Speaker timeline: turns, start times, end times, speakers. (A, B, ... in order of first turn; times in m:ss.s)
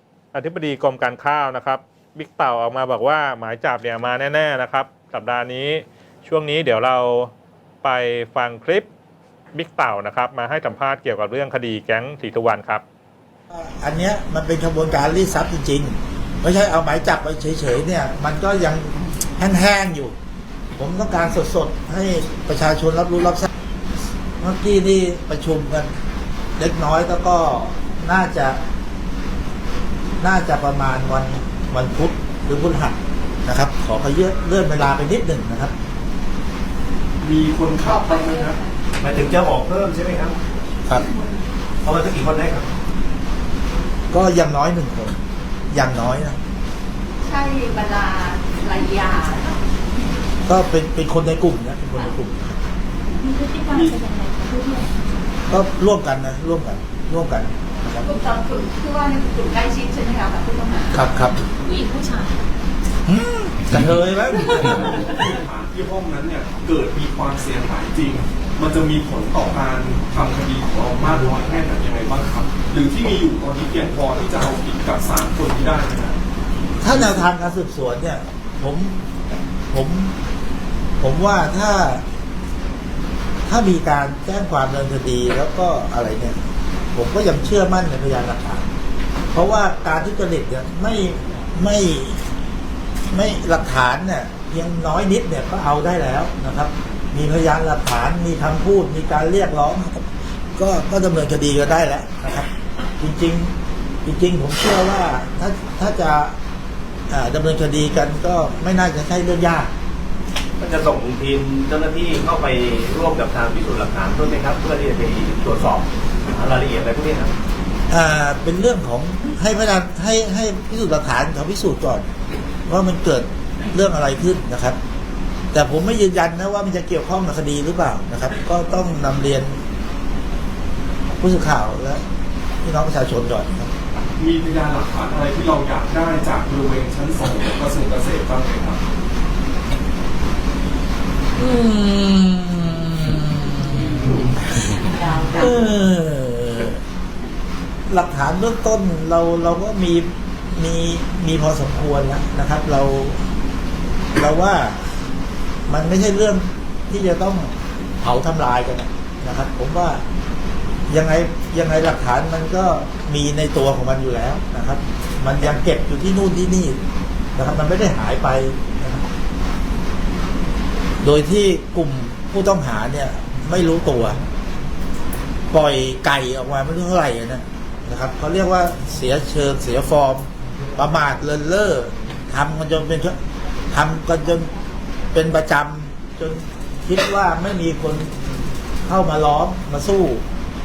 0:00.3-0:07.3 A
0:07.8-0:08.9 A
0:09.5-0:12.8 A
0:13.5-0:20.2 B
0:20.8-0:23.5 B
0:24.4-0:25.9 B
0:26.6-0:28.6 B
0:30.2-0:35.7 B
0:37.2-0:38.6 C
0:37.8-0:38.7 D
0:39.0-0:40.4 E
0:41.8-0:42.7 E
0:44.1-0:45.2 B
0:45.7-0:46.4 B
0:47.2-0:49.6 D
0:50.4-0:52.6 B
0:53.2-0:54.8 D
0:53.7-0:54.0 C
0:55.5-0:58.1 B
0:58.0-1:01.0 D
1:00.9-1:01.4 B
1:01.6-1:02.3 D
1:03.0-1:05.0 B
1:04.9-1:16.2 C
1:16.8-1:19.0 B
1:16.9-1:17.2 C
1:19.7-1:20.1 B
1:21.0-1:22.0 B
1:23.5-1:26.4 B
1:26.9-1:28.6 B
1:29.3-1:32.2 B
1:33.1-1:43.5 B
1:44.0-1:46.3 B
1:47.1-1:49.7 B
1:50.6-1:57.3 E
1:57.9-2:02.1 B
2:02.7-2:04.8 B
2:05.5-2:09.6 B
2:11.1-2:12.0 B
2:12.6-2:13.7 B
2:14.2-2:18.8 C
2:21.4-2:26.8 B
2:25.0-2:25.4 D
2:27.9-2:33.2 B
2:34.1-2:34.8 B
2:35.7-2:40.0 B
2:40.9-2:46.8 B
2:47.4-2:49.0 B
2:51.0-2:54.2 B
2:55.5-3:03.2 B
3:03.7-3:04.5 B
3:05.1-3:08.1 B
3:08.8-3:10.2 B